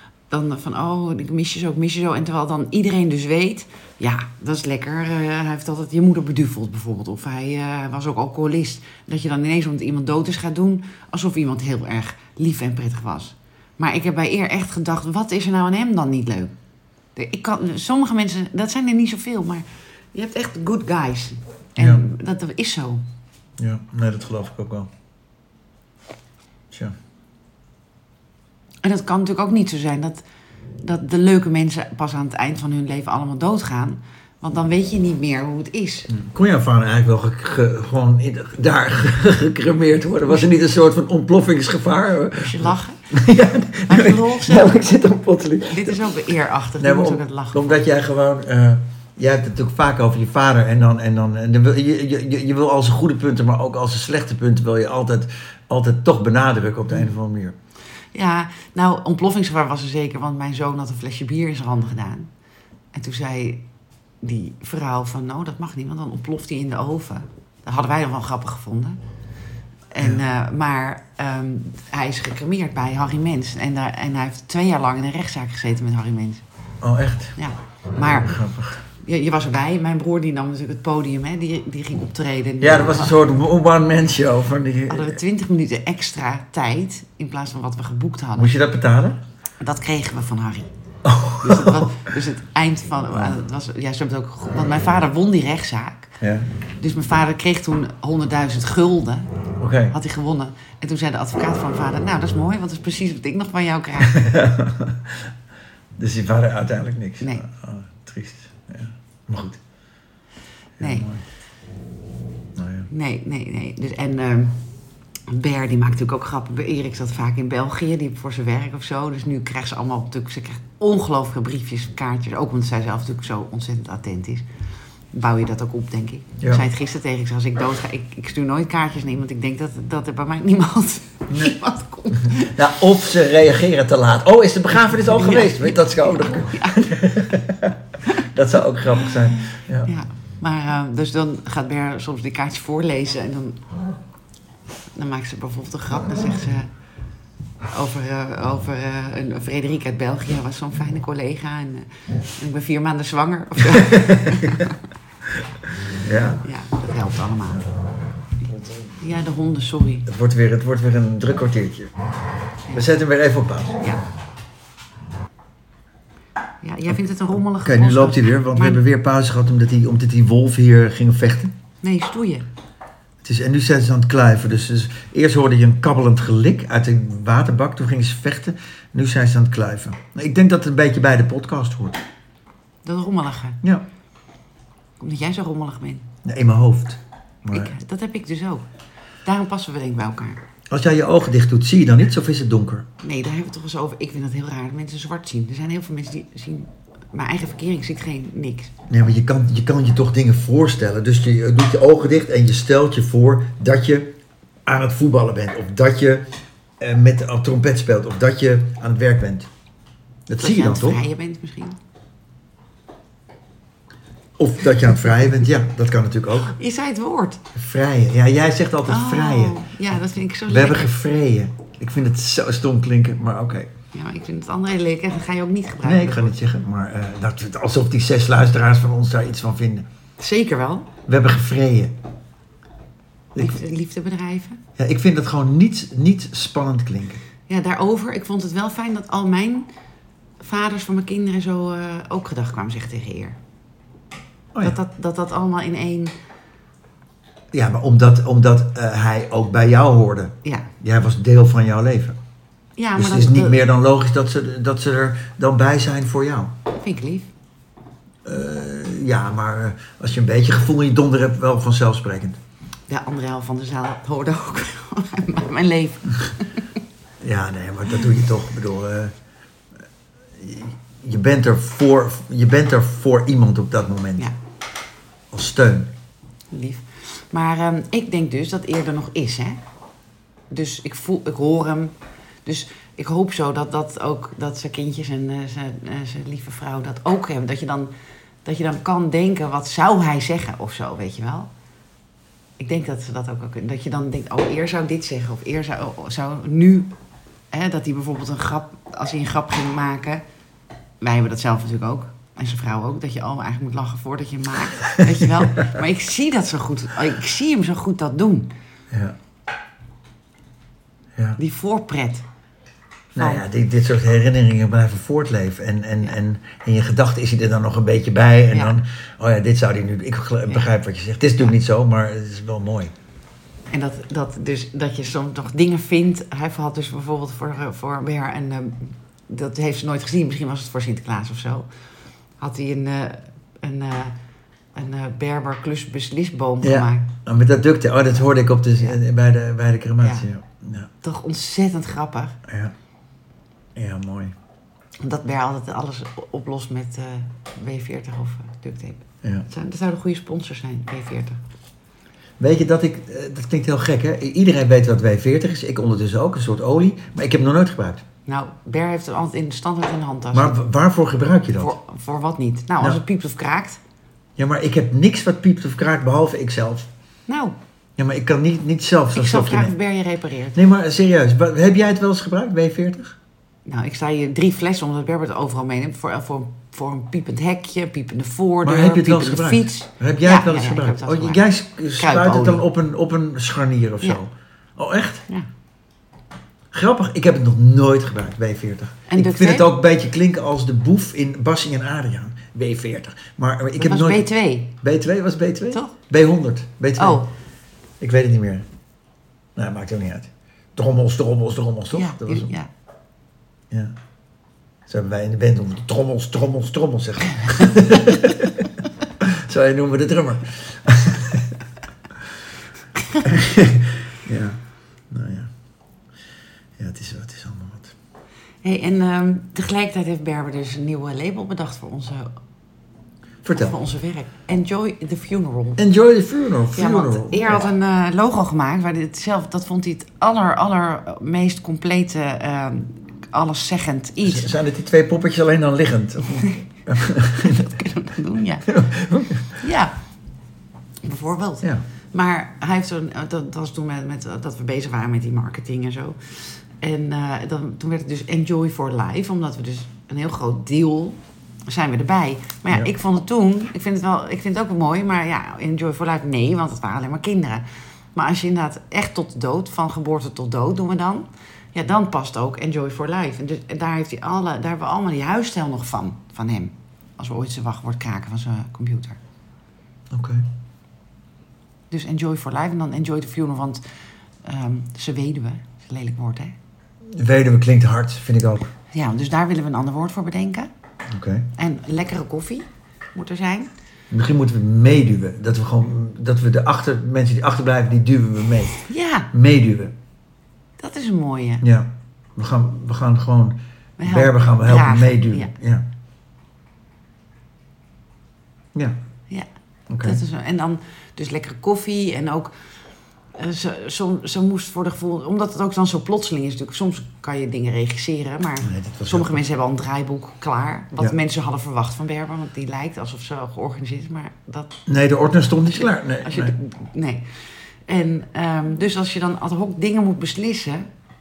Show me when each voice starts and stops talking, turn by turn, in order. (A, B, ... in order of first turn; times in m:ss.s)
0:00.3-0:16.5 A
0:17.2-0:23.0 A
0:21.8-0:22.0 B
0:23.6-0:24.9 B
0:28.8-0:30.2 A
0:30.8-0:36.1 A
0:36.1-0:46.1 B
0:42.3-0:43.1 A
0:43.8-0:44.8 A
0:45.7-0:47.7 A
0:46.8-0:57.5 B
0:58.1-1:02.3 A
1:02.9-1:03.6 A
1:04.2-1:09.0 A
1:09.9-1:16.4 A
1:16.8-1:17.4 B
1:17.4-1:18.4 A
1:18.0-1:18.8 B
1:18.9-1:23.2 A
1:22.6-1:25.2 B
1:24.9-1:28.5 A
1:28.4-1:29.2 B
1:29.6-1:30.7 A
1:31.0-1:31.9 B
1:31.4-1:36.1 A
1:33.1-1:33.4 B
1:36.2-1:36.5 B
1:36.8-1:39.3 A
1:39.6-1:40.0 B
1:39.9-1:44.2 A
1:44.0-1:45.3 B
1:46.0-1:49.6 B
1:50.8-1:51.2 B
1:50.8-1:51.1 A
1:52.6-1:52.9 B
1:52.9-1:54.6 A
1:55.3-2:04.4 A
2:05.1-2:12.6 A
2:06.4-2:06.6 B
2:11.3-2:11.6 B
2:12.2-2:19.9 B
2:14.7-2:16.9 A
2:18.9-2:23.6 A
2:24.9-2:26.7 A
2:27.7-2:34.8 A
2:33.7-2:34.7 B
2:35.9-2:36.4 B
2:36.4-2:37.6 A
2:38.5-2:38.8 B
2:39.0-2:40.1 A
2:40.0-2:41.9 B
2:42.7-2:43.8 B
2:46.6-2:48.8 A
2:47.6-2:51.5 B
2:51.8-2:52.5 A
2:53.2-3:02.0 B
3:02.8-3:03.6 A
3:05.0-3:06.1 A
3:06.2-3:07.8 B
3:07.5-3:08.6 A
3:09.2-3:10.4 A
3:10.7-3:12.9 B
3:13.0-3:18.7 A
3:18.9-3:24.1 B
3:24.6-3:26.2 B
3:26.8-3:29.5 B
3:30.3-3:31.0 B
3:30.4-3:31.8 A
3:34.4-3:36.5 B
3:36.4-3:37.4 A
3:37.5-3:39.6 B
3:38.9-3:40.9 A
3:40.5-3:43.7 B
3:43.9-3:46.3 A
3:45.8-3:49.8 B
3:50.2-3:50.9 A
3:51.1-3:51.9 B
3:53.3-3:53.6 B
3:53.3-3:54.6 A
3:54.8-3:57.2 B
3:57.5-3:59.7 A
4:00.4-4:03.4 A
4:04.6-4:06.1 A
4:07.5-4:12.2 B
4:10.4-4:10.7 A
4:12.8-4:13.6 A
4:13.0-4:16.5 B
4:16.7-4:17.3 A
4:18.2-4:22.4 B
4:22.9-4:26.7 A
4:27.2-4:29.1 B
4:30.4-4:34.3 B
4:35.3-4:35.9 B
4:36.5-4:39.6 A
4:40.5-4:47.9 A
4:48.4-4:51.5 A
4:52.6-4:56.9 A
4:57.5-5:00.2 A
5:01.0-5:08.5 A
5:04.9-5:05.7 B
5:08.9-5:09.2 B
5:11.4-5:12.2 A
5:13.1-5:22.9 B
5:13.2-5:13.4 A
5:23.7-5:31.7 A
5:32.4-5:34.1 A
5:34.7-5:37.1 A
5:36.6-5:40.9 B
5:40.0-5:40.2 A
5:41.0-5:42.4 A
5:42.4-5:42.7 B
5:43.8-5:44.3 B
5:45.0-5:51.4 A
5:49.2-5:49.5 B
5:52.4-5:58.0 B
5:58.2-6:00.6 A
6:00.3-6:01.7 B
6:01.6-6:03.8 A
6:04.4-6:06.9 B
6:07.3-6:07.6 A
6:08.0-6:09.7 B
6:09.1-6:10.6 A
6:10.5-6:13.2 B
6:13.6-6:21.4 A
6:18.6-6:25.3 B
6:22.0-6:22.6 A
6:26.7-6:34.3 B
6:29.1-6:29.7 A
6:33.8-6:34.7 A
6:34.8-6:37.2 B
6:37.0-6:37.3 A
6:38.0-6:38.6 B
6:39.6-6:42.5 B
6:41.9-6:42.7 A
6:44.9-6:48.7 B
6:49.2-6:51.6 B
6:53.2-6:55.5 B
6:56.8-6:57.9 B
6:58.6-7:02.3 A
7:03.4-7:03.7 B
7:03.5-7:05.8 A
7:05.8-7:07.6 B
7:06.7-7:14.5 A
7:14.2-7:17.9 B
7:16.2-7:18.7 A
7:18.6-7:19.6 B
7:19.6-7:20.0 A
7:21.0-7:49.2 A
7:50.1-7:50.4 B
7:51.9-7:53.8 A
7:54.4-7:56.5 A
7:57.1-7:58.7 B
7:58.9-8:00.7 A
8:01.1-8:01.5 B
8:01.6-8:03.7 A
8:04.1-8:09.9 B
8:08.9-8:09.3 A
8:10.8-8:11.6 A
8:11.6-8:15.8 B
8:14.0-8:15.5 A
8:19.9-8:20.2 B
8:20.0-8:22.5 A
8:23.3-8:34.8 A
8:28.6-8:29.4 B
8:34.8-8:36.5 B
8:36.2-8:37.3 A
8:37.8-8:40.9 A